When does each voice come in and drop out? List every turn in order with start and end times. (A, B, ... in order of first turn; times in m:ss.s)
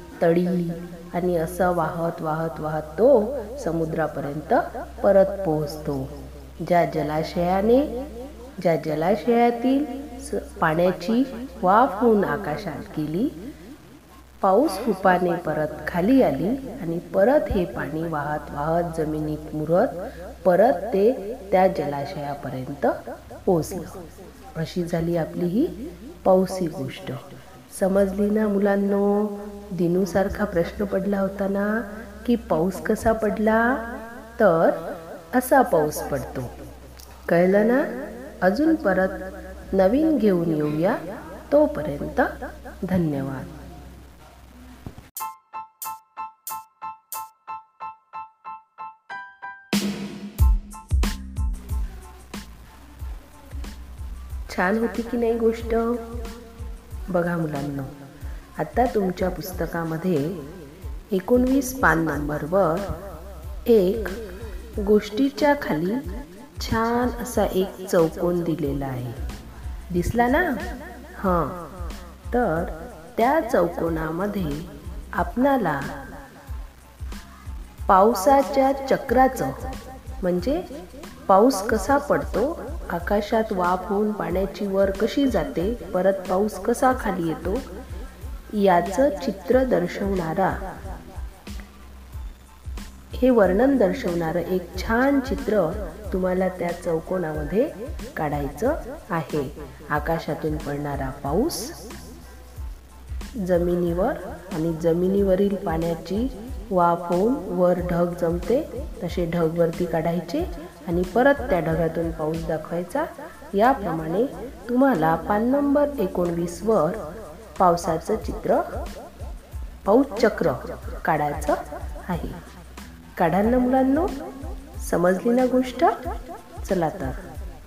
0:00.2-0:06.1 A
0:06.6-0:07.9 A
0:08.6-0:13.3 A
0:14.4-0:24.0 A
0:24.6-0:25.7 A
0:26.2-0:33.8 A
0:34.4-0:34.8 A
0:35.3-0:36.5 A
0:37.3-0:37.9 A
0:38.4-0:42.3 A
0:42.8-0:43.5 A
0:54.5-0:56.0 A
0:57.1-0:57.9 A
0:58.6-1:00.4 A
1:01.1-1:02.9 A
1:03.7-1:04.2 A
1:04.8-1:06.0 A
1:06.6-1:09.2 A
1:09.9-1:10.6 A
1:11.2-1:11.6 A
1:12.3-1:15.9 A
1:17.9-1:19.7 A
1:20.2-1:20.6 A
1:21.3-1:27.6 A
1:28.6-1:30.6 A
1:33.2-1:41.8 A
1:43.4-1:57.0 A
1:57.6-1:58.7 A
1:59.8-2:02.4 A
2:03.2-2:04.1 A
2:04.8-2:06.0 A
2:06.6-2:07.2 A